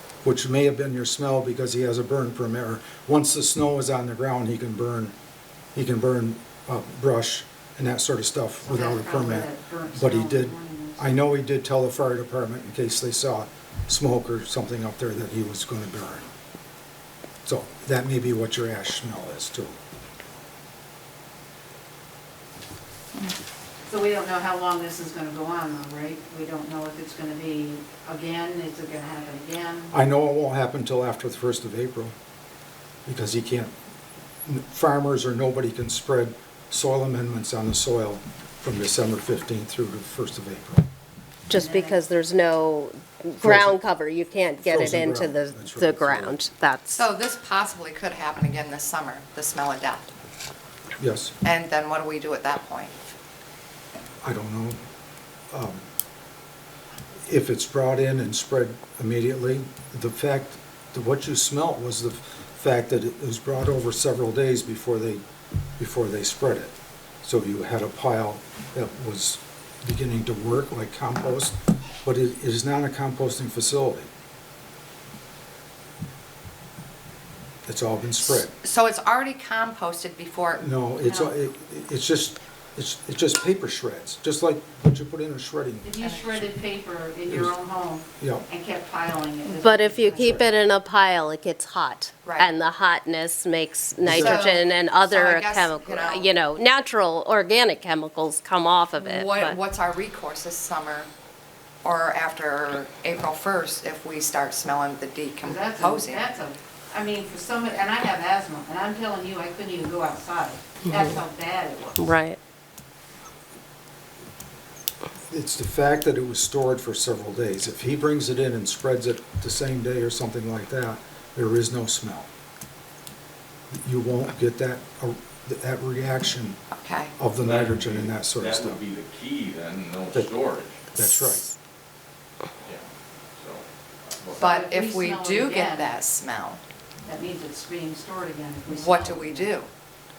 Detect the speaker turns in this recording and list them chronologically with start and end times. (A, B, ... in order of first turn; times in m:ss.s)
0:00.2-0:05.1 A
0:05.7-0:16.3 A
0:08.6-0:11.1 B
0:17.4-0:19.8 A
0:23.8-0:29.9 B
0:29.9-0:32.1 A
0:33.0-0:33.7 A
0:34.4-0:40.8 A
0:41.5-0:47.0 C
0:41.5-0:42.0 B
0:43.4-0:43.8 A
0:44.6-0:46.4 A
0:46.9-0:50.1 D
0:51.0-0:51.3 A
0:51.4-0:52.9 D
0:54.2-0:54.8 A
0:55.5-0:55.9 A
0:57.2-1:05.2 A
1:05.8-1:14.1 A
1:17.6-1:18.5 A
1:18.2-1:20.6 D
1:20.6-1:25.9 A
1:21.0-1:21.3 B
1:25.8-1:30.3 B
1:26.0-1:26.4 D
1:28.2-1:28.4 A
1:29.5-1:39.6 C
1:30.2-1:30.4 A
1:32.2-1:32.5 D
1:34.0-1:34.5 A
1:34.1-1:36.3 D
1:39.0-1:41.1 D
1:41.8-1:46.3 D
1:45.4-1:52.1 B
1:50.8-1:51.1 C
1:52.0-1:52.4 C
1:55.3-2:02.3 A
2:03.7-2:06.6 A
2:06.7-2:07.1 D
2:07.2-2:08.8 A
2:07.4-2:11.0 E
2:10.9-2:11.5 A
2:12.6-2:14.5 E
2:14.4-2:16.6 D
2:14.4-2:15.9 B
2:17.0-2:19.5 B
2:18.7-2:19.7 D